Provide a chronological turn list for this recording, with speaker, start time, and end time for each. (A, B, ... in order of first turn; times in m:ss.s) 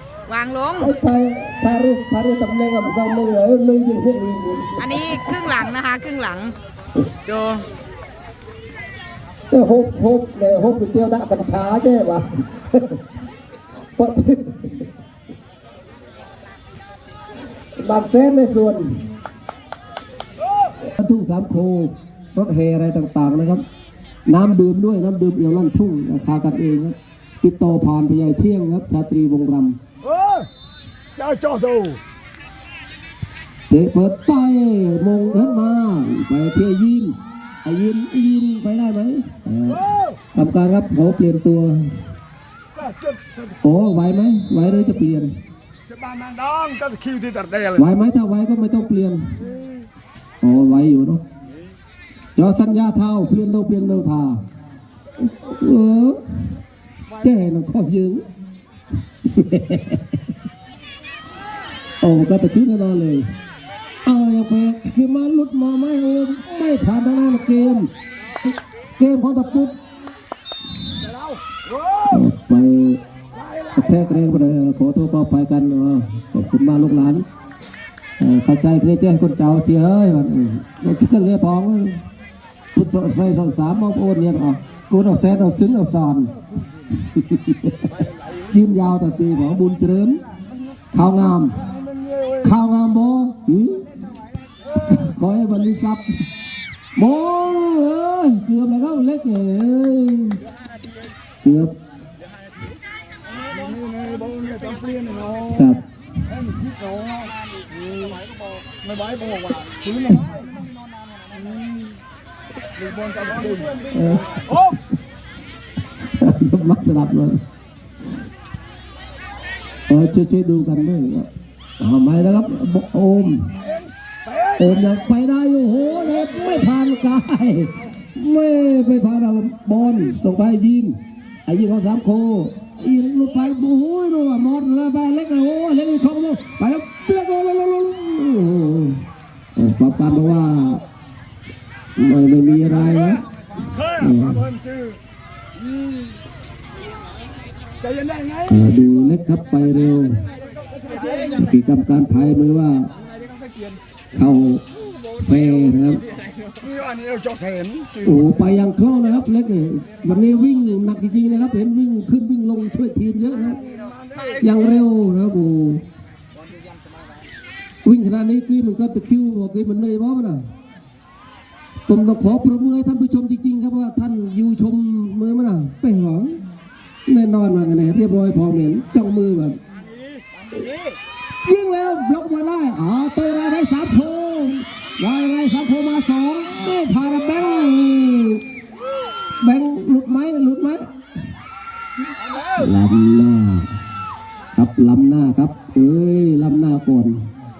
0:00.3-0:00.9 A
0:00.8-0:05.3 B
0:04.8-0:06.5 A
0:07.2-0:07.6 A
0:09.5-0:13.0 B
0:14.0-0:14.8 B
0:17.8-0:19.0 B
0:20.8-0:23.6 B
0:24.2-0:29.8 B
0:30.0-0:30.5 C
0:31.2-0:32.0 C
0:33.7-0:42.0 B
0:42.8-0:43.3 C
0:43.6-0:45.3 B
0:45.9-0:47.7 C
0:47.7-0:49.3 B
0:50.4-0:51.2 B
0:52.3-0:54.4 B
0:55.2-0:56.2 B
0:57.1-0:58.2 B
0:59.2-1:00.1 B
1:02.0-1:03.3 B
1:04.0-1:07.9 B
1:09.0-1:09.8 B
1:12.0-1:13.0 B
1:13.7-1:17.2 B
1:18.2-1:22.0 B
1:22.7-1:26.4 B
1:27.0-1:30.2 B
1:30.9-1:31.6 B
1:32.4-1:33.8 B
1:34.7-1:36.0 B
1:37.0-1:40.4 B
1:41.4-1:41.7 B
1:43.5-1:45.4 C
1:45.5-1:45.8 B
1:46.4-1:48.2 C
1:48.7-1:50.3 C
1:52.8-1:53.8 C
1:53.9-1:54.8 B
1:56.0-1:57.4 B
1:59.9-2:03.5 B
2:04.5-2:19.0 B
2:19.5-2:20.8 B
2:22.0-2:23.2 B
2:23.8-2:24.5 B
2:24.6-2:25.0 C
2:27.8-2:28.4 C
2:28.4-2:30.2 B
2:31.3-2:32.9 B
2:34.1-2:34.6 B
2:35.2-2:36.0 B
2:36.6-2:38.0 C
2:38.0-2:43.6 B
2:44.2-2:45.8 B
2:47.8-2:50.4 B
2:51.9-2:56.4 B
2:57.0-2:59.6 B
3:01.4-3:08.4 B
3:09.4-3:10.9 B
3:12.5-3:13.8 B
3:14.5-3:17.2 B